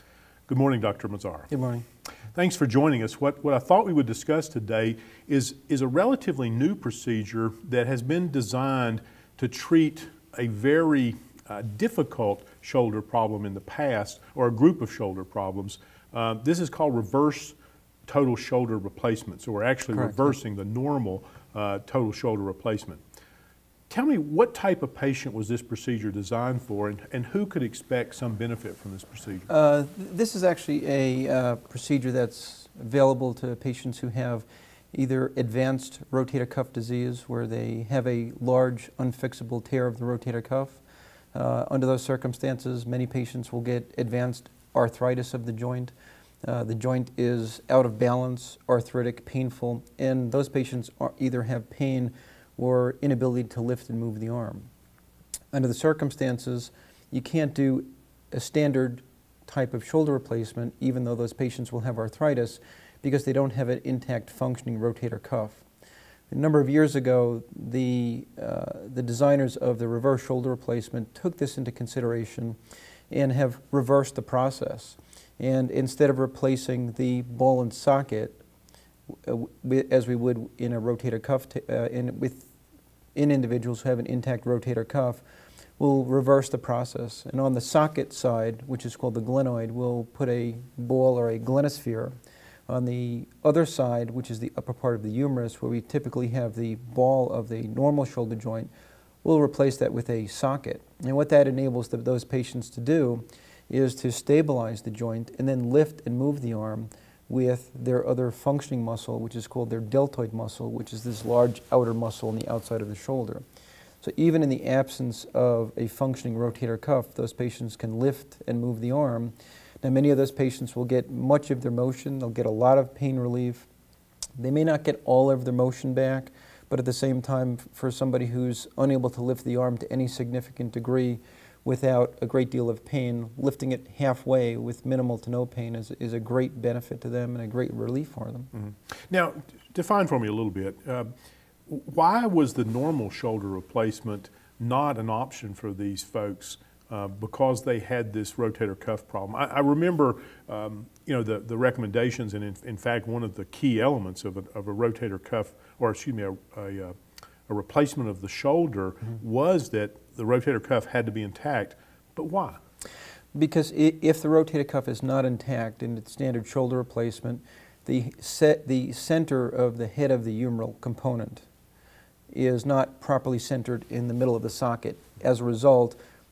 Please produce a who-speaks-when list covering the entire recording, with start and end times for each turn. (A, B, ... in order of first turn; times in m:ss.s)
0:00.5-0:01.5 A
0:01.5-0:01.8 B
0:02.3-0:23.0 A
0:19.9-0:20.3 B
0:23.9-0:29.5 A
0:29.5-0:40.8 B
0:41.3-0:45.9 B
0:46.4-0:54.7 B
0:55.5-1:05.6 B
1:06.3-1:12.6 B
1:13.1-1:18.4 B
1:19.2-1:22.5 B
1:23.1-1:25.2 B
1:25.8-1:32.1 B
1:32.7-1:38.7 B
1:39.2-1:53.4 B
1:54.0-2:03.7 B
2:04.4-2:18.5 B
2:18.5-2:21.1 A
2:21.7-2:42.6 A
2:43.3-2:51.4 B
2:52.3-2:56.0 B